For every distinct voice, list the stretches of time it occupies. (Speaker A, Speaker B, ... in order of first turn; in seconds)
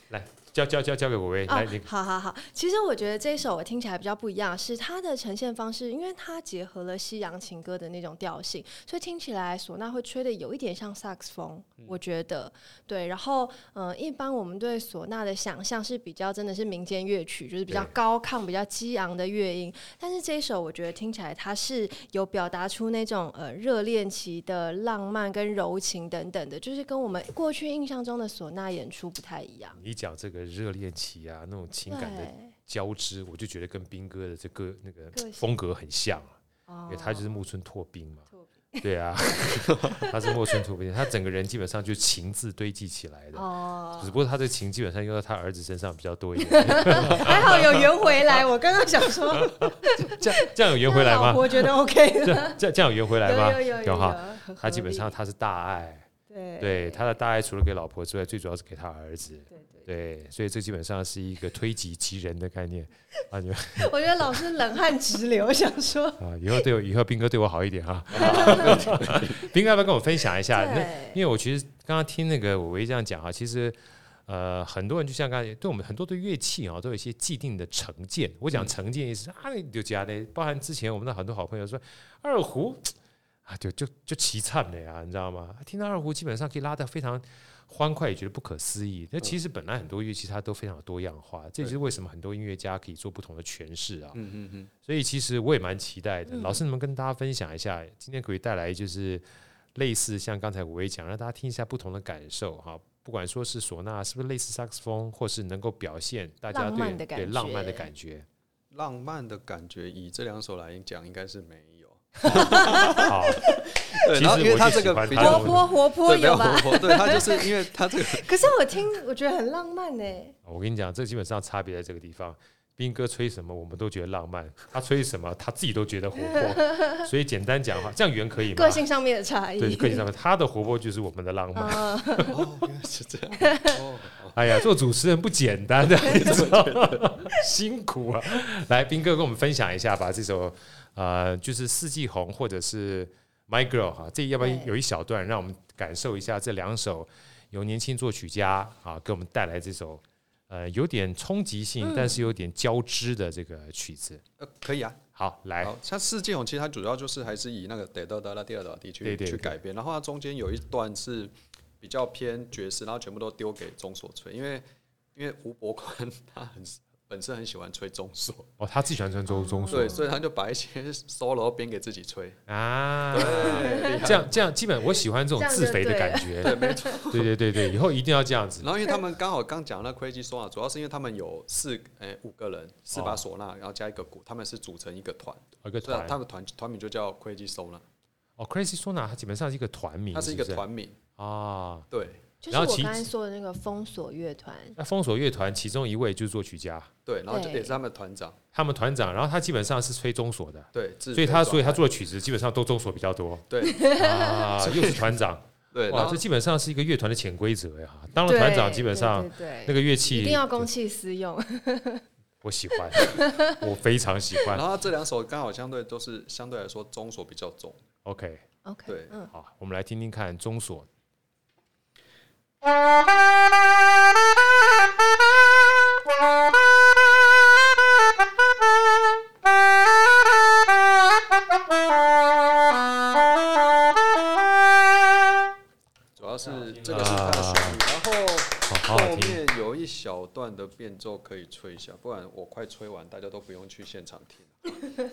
Speaker A: 0.1-1.9, 29.8-36.4, 36.9-38.3, 38.8-43.5, 44.0-47.9, 49.3-56.1, 56.6-64.4, 66.2-94.2, 94.8-99.2, 99.8-108.3, 112.2-115.7, 120.5-128.8, 129.6-132.3, 134.3-154.2, 155.2-155.8, 159.0-159.6, 168.6-170.0, 172.5-178.8, 182.9-183.2, 185.6-186.2, 188.4-190.6, 191.2-191.9, 192.5-193.1, 194.8-196.9, 198.5-210.7, 212.4-214.6, 218.1-218.4, 219.3-220.9, 236.5-237.8, 238.7-239.4
Speaker B: 1.5-29.8, 31.9-32.5, 35.1-35.5, 36.7-37.3, 38.3-38.9, 39.8-40.4, 43.4-44.2, 46.4-52.6, 53.2-55.2, 56.3-57.1, 59.5-59.9, 63.8-66.6, 68.2-68.9, 70.5-71.2, 96.3-96.6, 106.5-107.9, 112.3-113.7, 115.1-120.3, 126.2-127.0, 128.5-130.1, 131.6-132.4, 133.4-133.8, 144.4-144.7, 151.8-152.3, 169.3-170.1, 173.2-174.2, 175.4-177.1, 192.4-194.8, 197.3-197.8, 203.6-204.5, 208.3-212.0, 212.9-213.7, 218.7-219.3
Speaker C: 68.1-69.4, 94.1-94.7, 108.7-118.5, 132.3-134.4, 135.8-137.1, 154.4-155.0, 155.6-168.5, 169.7-172.4, 173.1-174.4, 176.4-177.3, 178.6-187.8, 190.1-191.0, 191.9-192.2, 197.1-198.4, 200.7-201.9, 203.5-203.9, 204.6-205.2, 205.7-206.2, 214.5-217.8, 218.9-219.2, 236.2-244.6